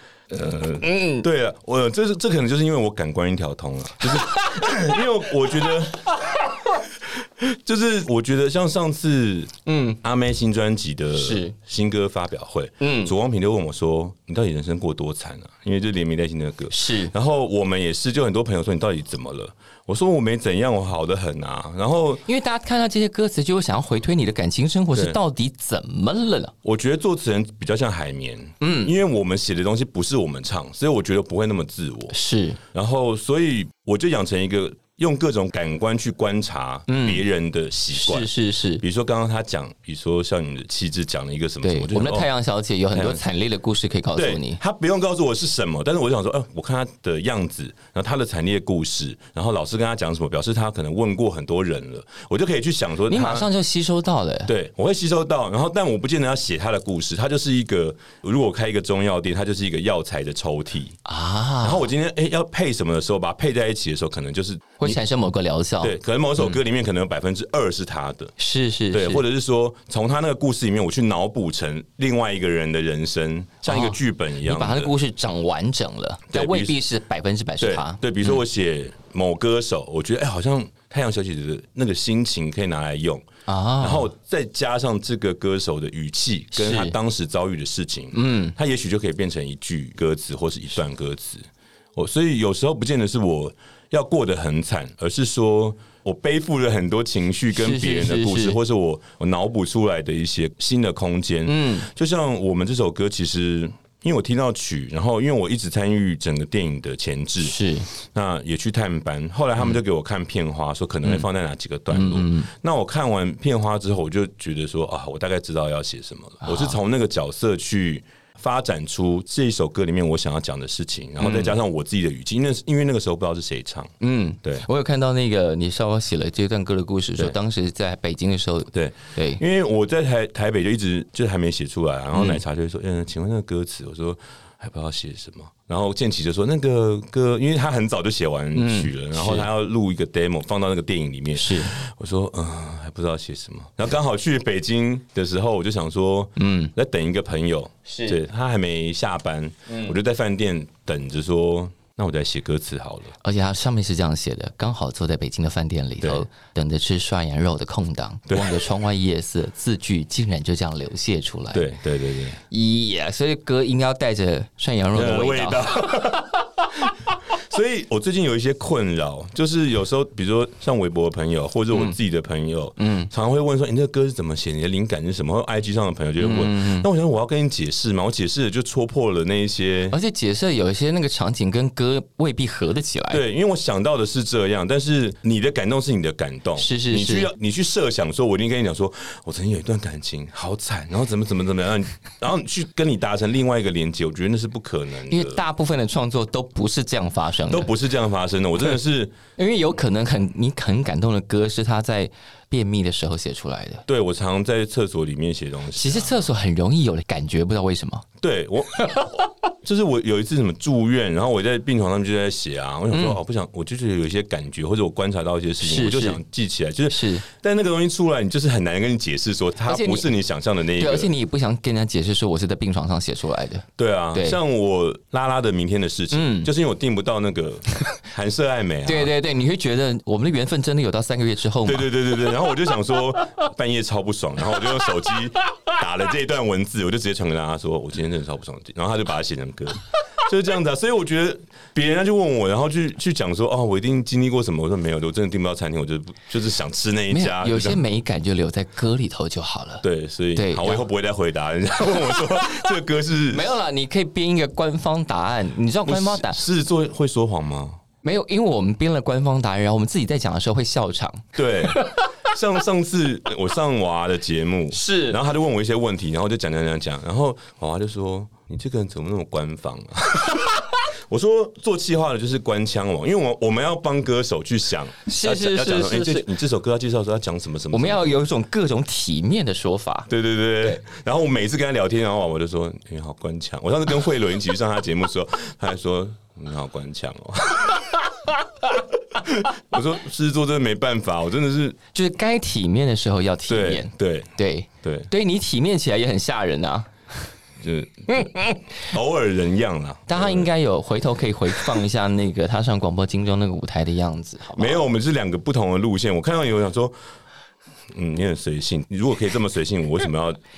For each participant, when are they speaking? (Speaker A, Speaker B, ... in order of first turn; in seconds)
Speaker A: 0.3-22.2, 26.6-32.1, 32.7-42.3, 42.9-43.2, 44.1-53.5, 54.5-61.0, 61.6-65.0, 65.8-68.3, 68.9-74.9, 76.3-76.8, 77.6-83.2, 83.8-124.6, 128.7-153.1, 158.3-158.7, 161.5-162.4, 164.9-179.9, 183.1-195.4, 197.5-199.2, 203.8-206.2, 208.2-221.1, 223.8-229.1, 231.6-247.8, 249.8-253.5, 255.8-257.8, 261.3-278.2, 280.1-288.1, 289.1-291.8, 293.5-295.1, 297.6-300.5, 304.6-306.9, 307.9-310.4
Speaker B: 0.8-1.2, 4.2-4.7, 9.7-10.0, 11.1-11.5, 12.8-13.1, 16.7-17.1, 22.2-26.5, 28.6-28.9, 32.1-32.6, 36.9-37.2, 37.9-38.8, 41.6-44.6, 53.1-54.5, 61.0-61.9, 64.8-66.5, 68.4-69.2, 73.7-78.4, 83.5-84.1, 86.5-87.0, 88.1-88.5, 97.5-98.6, 101.5-101.9, 107.4-107.9, 111.9-112.5, 116.4-116.8, 121.2-121.5, 124.0-129.4, 132.1-132.4, 138.5-139.5, 141.3-141.7, 146.4-146.7, 147.9-148.2, 153.2-161.7, 162.5-166.0, 172.8-173.1, 176.2-176.9, 179.9-183.2, 186.6-187.3, 195.1-197.7, 199.4-203.8, 205.7-208.1, 208.8-209.1, 212.9-213.2, 215.6-216.2, 216.9-217.2, 219.7-220.1, 220.8-224.4, 226.1-226.5, 228.8-231.9, 247.1-250.8, 253.3-256.4, 258.0-262.0, 264.7-265.2, 275.1-276.3, 277.7-280.1, 291.9-297.3, 298.1-298.9, 300.1-304.9